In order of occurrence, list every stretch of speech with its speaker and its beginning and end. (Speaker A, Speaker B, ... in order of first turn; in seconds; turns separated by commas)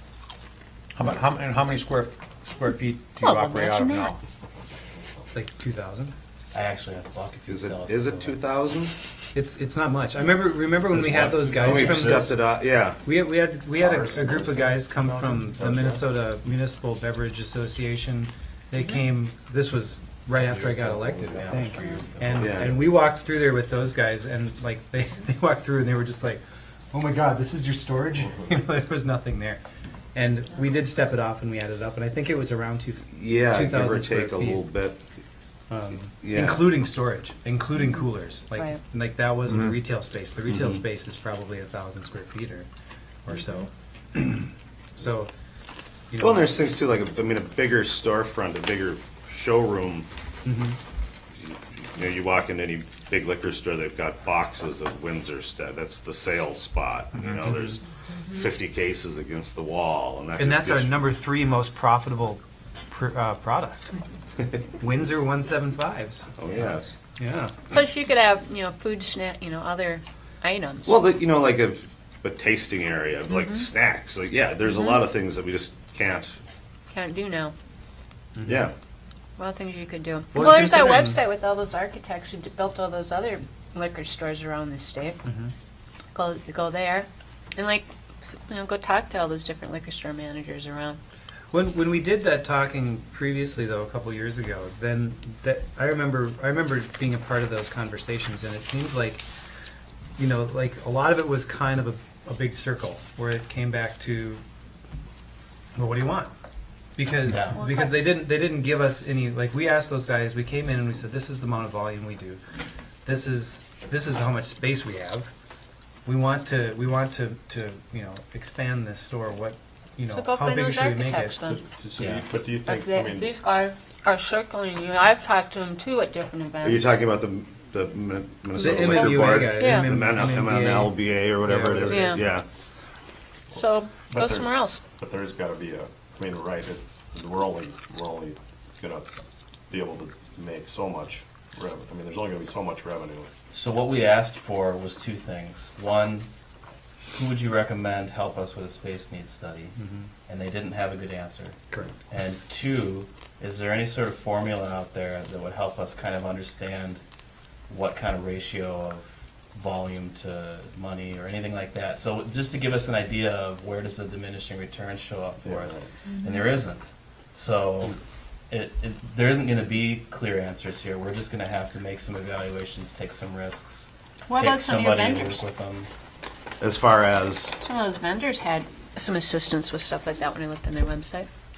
Speaker A: 0.9-4.2, Speaker B: 3.2-4.1, Speaker C: 5.3-6.1, Speaker D: 6.5-8.4, Speaker E: 7.5-9.0, Speaker C: 9.3-12.4, Speaker E: 11.0-13.0, Speaker C: 13.0-26.4, Speaker F: 13.8-16.0, Speaker D: 20.4-22.8, Speaker E: 22.4-22.8, Speaker C: 26.9-29.6, Speaker C: 30.1-34.7, Speaker E: 33.1-35.0, Speaker C: 35.7-42.7, Speaker E: 36.2-36.7, Speaker C: 43.3-45.3, Speaker C: 46.1-46.6, Speaker E: 46.2-50.1, Speaker C: 50.5-50.8, Speaker E: 51.4-61.0, Speaker C: 57.2-57.6, Speaker C: 60.4-63.9, Speaker C: 64.8-67.6, Speaker E: 66.4-66.9, Speaker B: 67.7-71.0, Speaker E: 70.9-76.4, Speaker B: 73.3-73.7, Speaker B: 74.7-75.0, Speaker B: 76.9-77.5, Speaker C: 78.3-78.7, Speaker E: 78.5-78.7, Speaker B: 79.4-85.2, Speaker C: 80.3-81.2, Speaker C: 85.2-85.5, Speaker B: 86.1-91.0, Speaker C: 91.5-99.2, Speaker C: 100.2-104.4, Speaker C: 105.8-106.3, Speaker C: 107.0-112.4, Speaker D: 107.2-107.6, Speaker B: 107.5-108.0, Speaker C: 113.0-115.3, Speaker C: 116.1-121.4, Speaker B: 120.1-121.6, Speaker F: 121.4-123.3, Speaker D: 122.0-122.2, Speaker B: 122.6-127.0, Speaker E: 126.6-132.4, Speaker C: 128.5-132.1, Speaker B: 128.6-130.0, Speaker B: 131.9-132.2, Speaker B: 133.5-134.8, Speaker F: 134.1-139.2, Speaker F: 139.7-143.3, Speaker D: 143.5-146.3, Speaker D: 147.1-149.8, Speaker C: 149.8-150.1, Speaker D: 150.3-151.6, Speaker D: 152.1-157.0, Speaker D: 157.7-168.0, Speaker F: 165.4-165.9, Speaker D: 168.5-175.9, Speaker B: 174.3-175.4, Speaker E: 176.6-177.6, Speaker B: 177.6-181.3